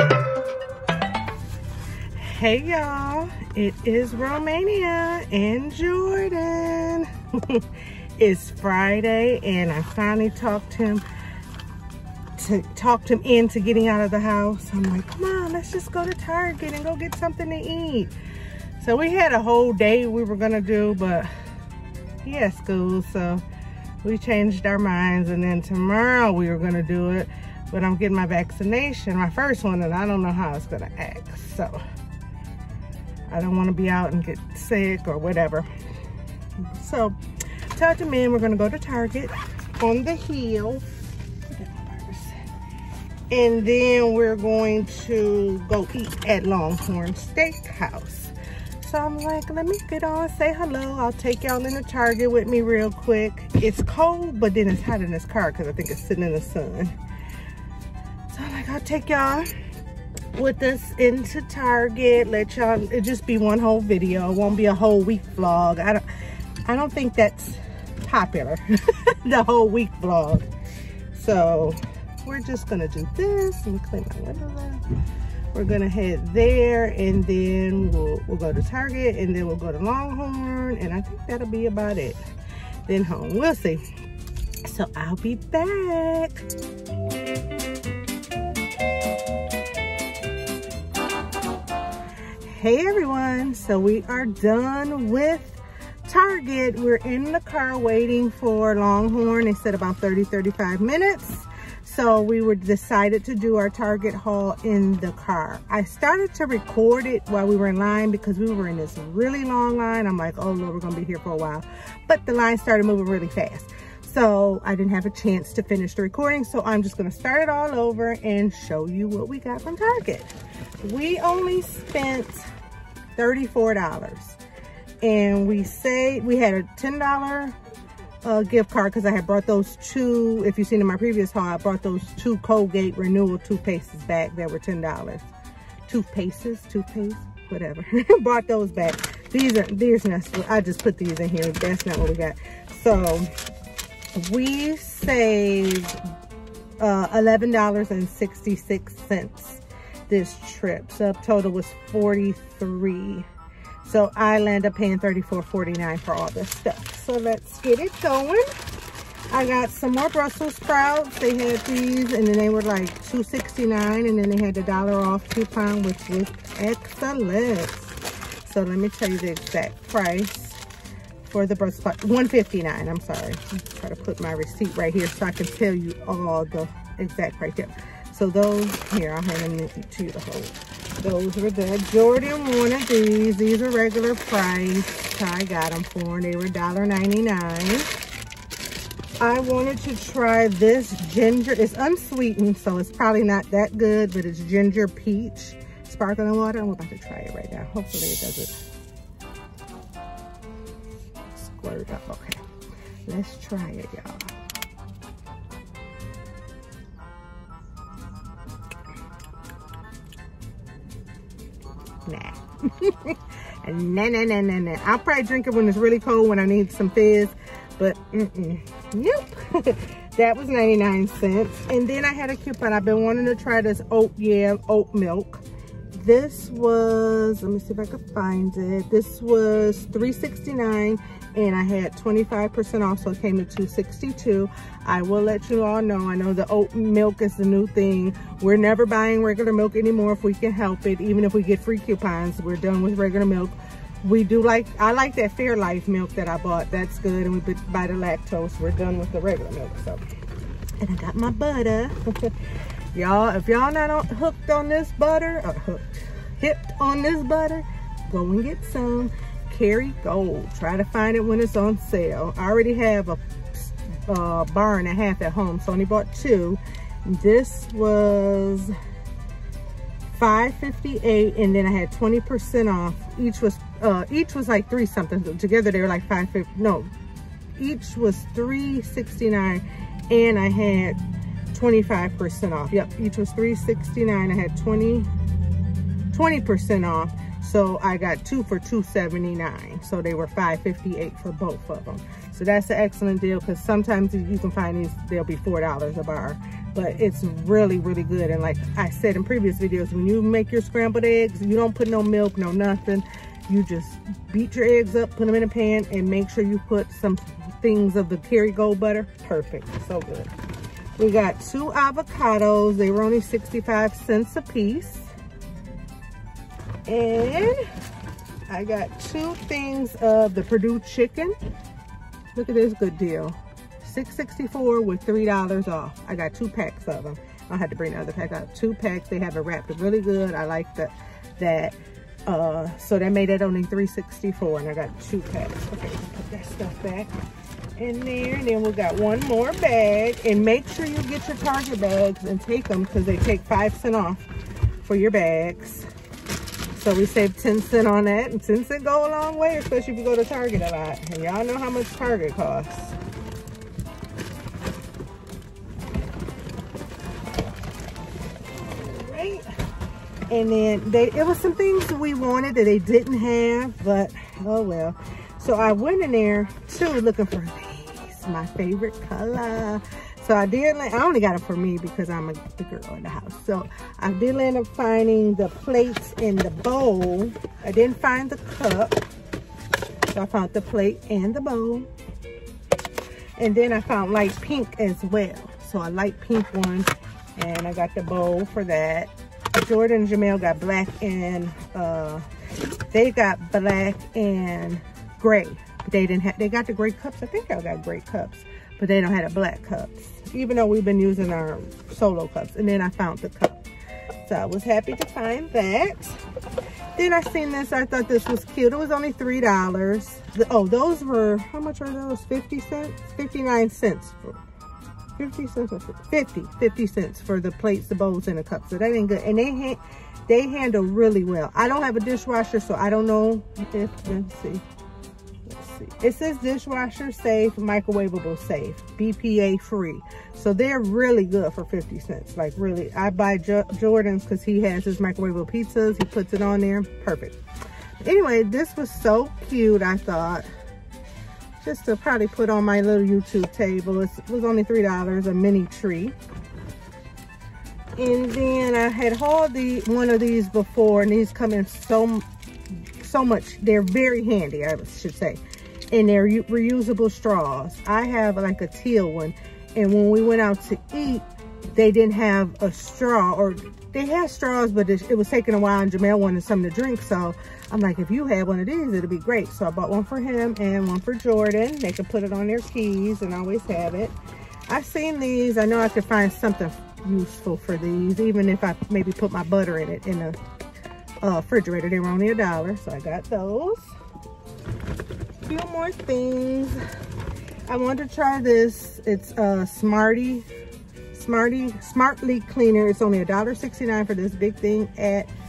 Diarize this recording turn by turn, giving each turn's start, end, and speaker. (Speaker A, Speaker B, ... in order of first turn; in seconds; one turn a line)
Speaker A: 2.1-11.0
Speaker A: 12.4-18.1
Speaker A: 18.8-21.3
Speaker A: 22.2-23.4
Speaker A: 24.0-31.8
Speaker A: 33.3-35.7
Speaker A: 36.7-37.1
Speaker A: 37.7-40.9
Speaker A: 41.5-42.4
Speaker A: 43.3-56.9
Speaker A: 58.3-59.5
Speaker A: 60.3-66.0
Speaker A: 66.6-68.6
Speaker A: 69.2-70.5
Speaker A: 71.1-74.8
Speaker A: 75.5-82.2
Speaker A: 82.8-83.8
Speaker A: 84.6-86.5
Speaker A: 92.5-122.5
Speaker A: 123.2-124.4
Speaker A: 125.0-127.6
Speaker A: 128.2-135.3
Speaker A: 135.9-143.3
Speaker A: 144.1-146.0
Speaker A: 146.8-153.3
Speaker A: 153.8-158.5
Speaker A: 159.3-170.6
Speaker A: 171.2-187.9
Speaker A: 189.2-198.5
Speaker A: 201.2-202.4
Speaker A: 203.1-204.3
Speaker A: 212.0-250.0
Speaker A: 250.8-268.7
Speaker A: 270.1-276.9
Speaker A: 277.6-281.0
Speaker A: 281.5-285.1
Speaker A: 286.1-310.3
Speaker A: 311.0-315.1
Speaker A: 316.9-317.6
Speaker A: 318.5-321.3
Speaker A: 322.3-337.1
Speaker A: 337.8-344.3
Speaker A: 344.8-345.9
Speaker A: 346.7-353.0
Speaker A: 358.5-359.5
Speaker A: 360.3-379.1
Speaker A: 380.1-381.9
Speaker A: 383.4-392.2
Speaker A: 392.9-403.6
Speaker A: 404.2-406.2
Speaker A: 406.9-414.4
Speaker A: 415.2-424.6
Speaker A: 425.4-437.4
Speaker A: 438.0-440.5
Speaker A: 441.6-446.1
Speaker A: 447.9-452.2
Speaker A: 453.0-474.2
Speaker A: 474.7-480.4
Speaker A: 481.2-483.9
Speaker A: 485.4-486.8
Speaker A: 487.7-490.5
Speaker A: 491.1-495.3